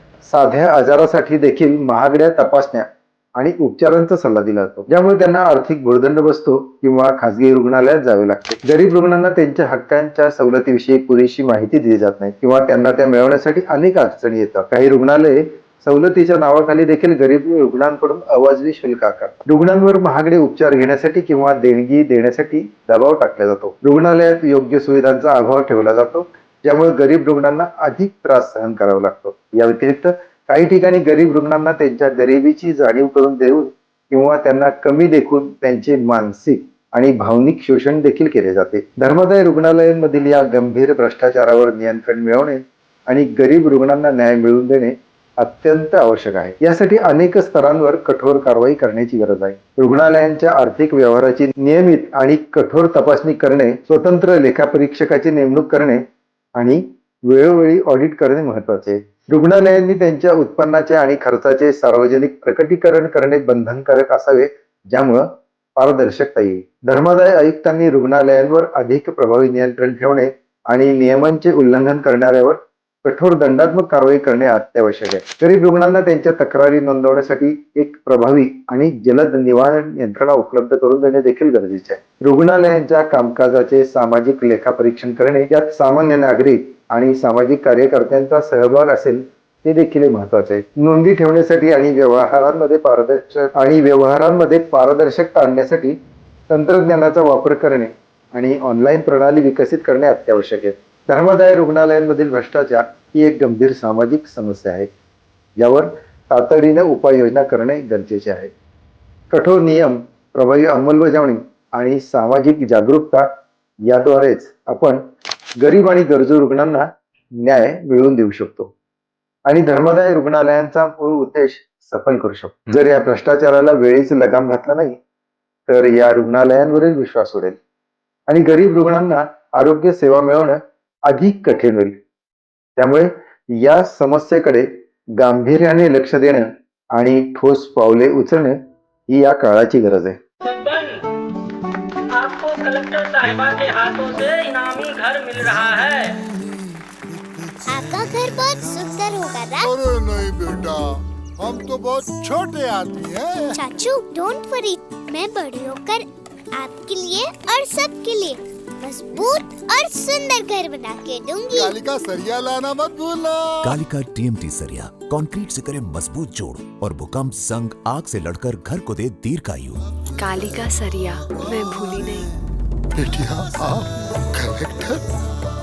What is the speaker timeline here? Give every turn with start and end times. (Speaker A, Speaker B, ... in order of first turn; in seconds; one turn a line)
Speaker A: 0.2-56.0
Speaker A: 56.5-96.0
Speaker A: 96.5-104.9
Speaker A: 105.6-108.5
Speaker A: 109.3-113.2
Speaker A: 113.9-115.0
Speaker A: 115.6-116.9
Speaker A: 117.4-118.7
Speaker A: 119.5-125.0
Speaker A: 125.7-127.6
Speaker A: 128.3-132.0
Speaker A: 132.8-138.6
Speaker A: 139.1-140.2
Speaker B: 140.5-140.9
Speaker B: 142.2-146.1
Speaker C: 147.7-149.7
Speaker D: 149.6-153.6
Speaker C: 153.5-161.8
Speaker D: 161.5-163.7
Speaker E: 163.6-169.8
Speaker F: 170.2-172.3
Speaker D: 172.9-175.1